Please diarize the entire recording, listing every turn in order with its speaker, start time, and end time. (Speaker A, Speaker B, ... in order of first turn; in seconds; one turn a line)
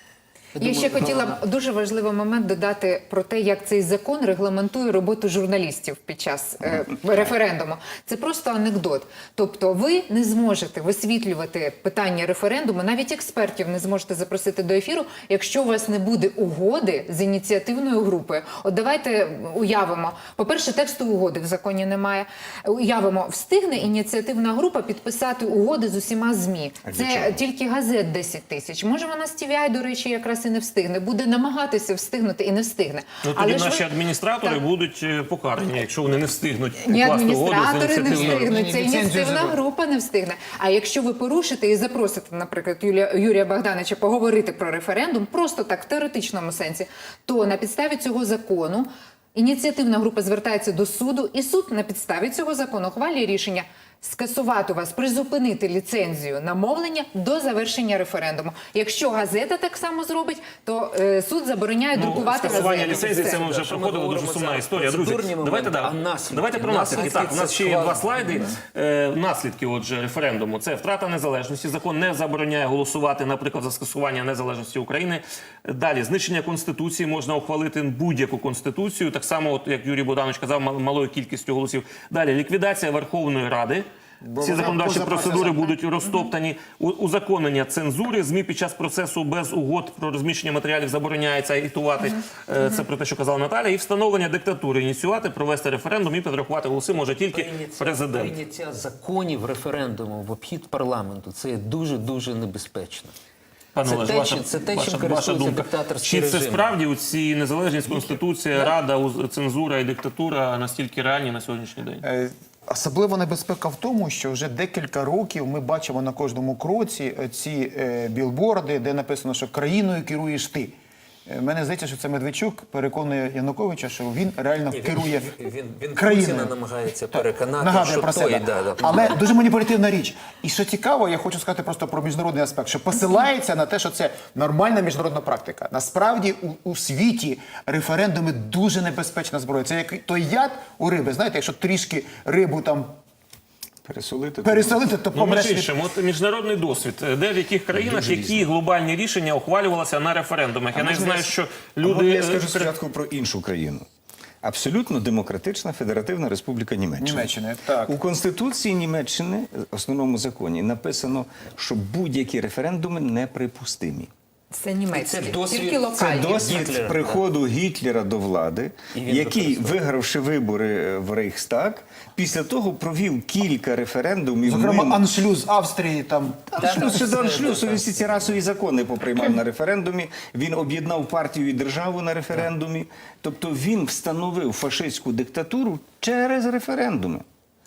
Speaker A: 0.6-1.4
Speaker B: 0.6-33.9
Speaker C: 26.9-27.4
Speaker D: 33.2-38.5
Speaker B: 36.9-63.4
Speaker E: 38.1-39.6
Speaker A: 62.0-68.5
Speaker D: 62.0-83.9
Speaker E: 84.2-85.7
Speaker D: 84.4-98.3
Speaker A: 97.3-103.1
Speaker D: 103.8-112.0
Speaker A: 103.8-106.8
Speaker E: 112.0-120.8
Speaker E: 121.3-125.4
Speaker A: 124.7-129.2
Speaker E: 125.9-126.6
Speaker E: 127.1-142.9
Speaker C: 143.8-144.9
Speaker E: 144.4-145.7
Speaker D: 145.1-152.7
Speaker C: 147.7-148.5
Speaker C: 150.7-153.9
Speaker C: 154.4-157.3
Speaker E: 157.0-157.9
Speaker C: 157.8-164.1
Speaker B: 164.5-166.7
Speaker A: 164.9-167.2
Speaker C: 165.9-175.1
Speaker A: 168.9-169.8
Speaker E: 174.4-177.1
Speaker C: 176.5-187.2
Speaker A: 176.6-178.4